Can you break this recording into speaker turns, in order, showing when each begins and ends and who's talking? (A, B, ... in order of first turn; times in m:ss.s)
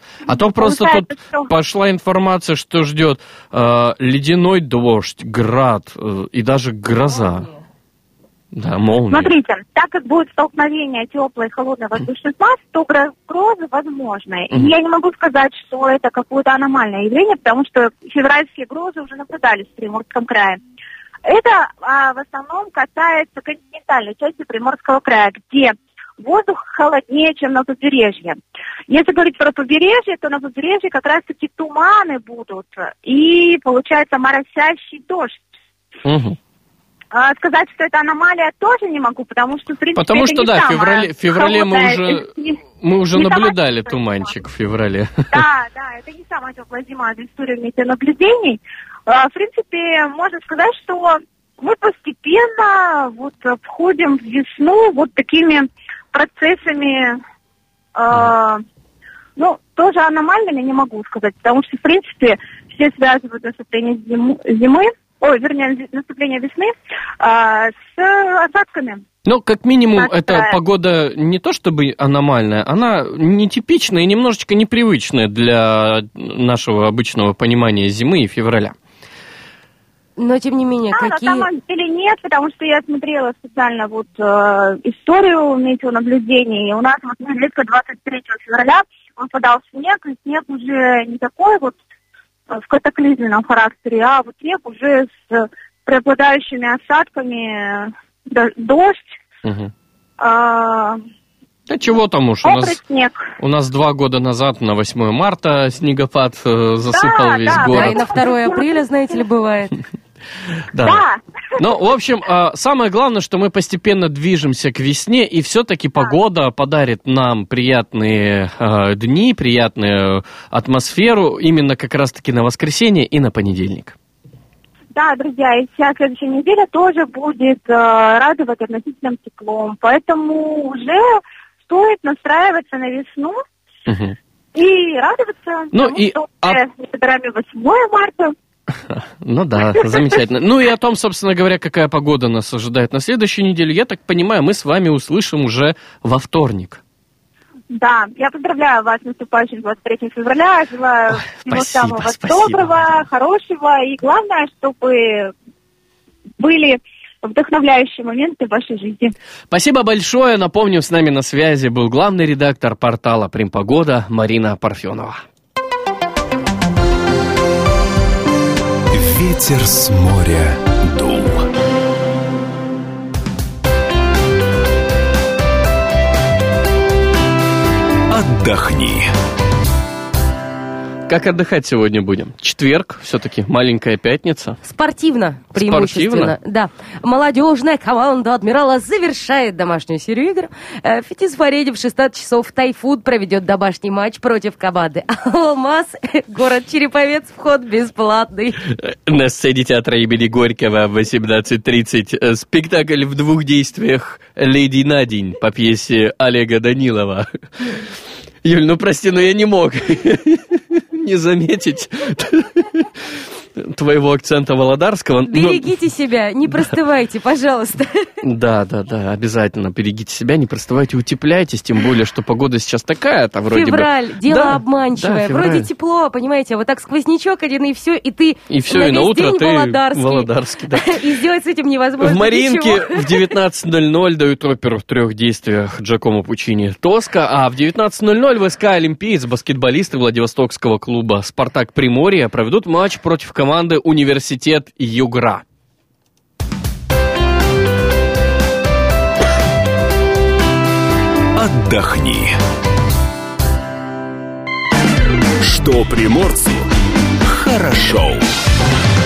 0:00.3-0:07.5 A
0:00.3-0:01.5 B
0:08.5-0:09.3 A
0:09.1-0:20.6 B
0:21.2-0:35.4 B
0:36.0-0:36.4 A
0:37.1-0:42.6 B
0:40.0-0:42.3 A
0:42.8-0:45.4 A
0:43.1-0:44.3 B
0:45.3-0:57.2 B
0:58.0-0:58.6 B
0:59.4-1:09.0 B
1:09.2-1:18.7 A
1:10.0-1:10.6 B
1:20.2-1:21.5 C
1:20.9-1:31.8 B
1:32.5-1:39.2 B
1:39.4-1:39.7 A
1:40.2-1:41.0 B
1:41.7-1:42.8 A
1:42.4-1:43.2 B
1:43.4-1:48.2 A
1:46.9-1:48.6 B
1:47.5-1:49.8 C
1:50.7-1:51.0 A
1:50.8-1:51.2 B
1:51.6-2:04.0 A
2:04.9-2:13.4 B
2:13.9-2:14.2 A
2:14.5-2:18.3 B
2:15.7-2:16.6 A
2:18.9-2:26.8 A
2:27.7-2:35.3 B
2:31.4-2:32.8 A
2:36.4-2:39.1 B
2:39.5-2:45.2 A
2:48.9-2:51.5 D
2:58.1-2:59.1 D
3:01.1-3:04.6 A
3:04.6-3:18.6 C
3:05.5-3:06.3 A
3:18.7-3:27.8 A
3:28.4-3:32.9 A
3:33.6-3:35.7 A
3:35.2-3:38.1 C
3:38.2-3:45.7 A
3:43.5-3:53.3 C
3:48.5-3:51.0 A
3:52.0-4:05.4 A
4:11.4-4:12.4 D
4:15.4-4:16.7 D
4:17.3-4:18.2 D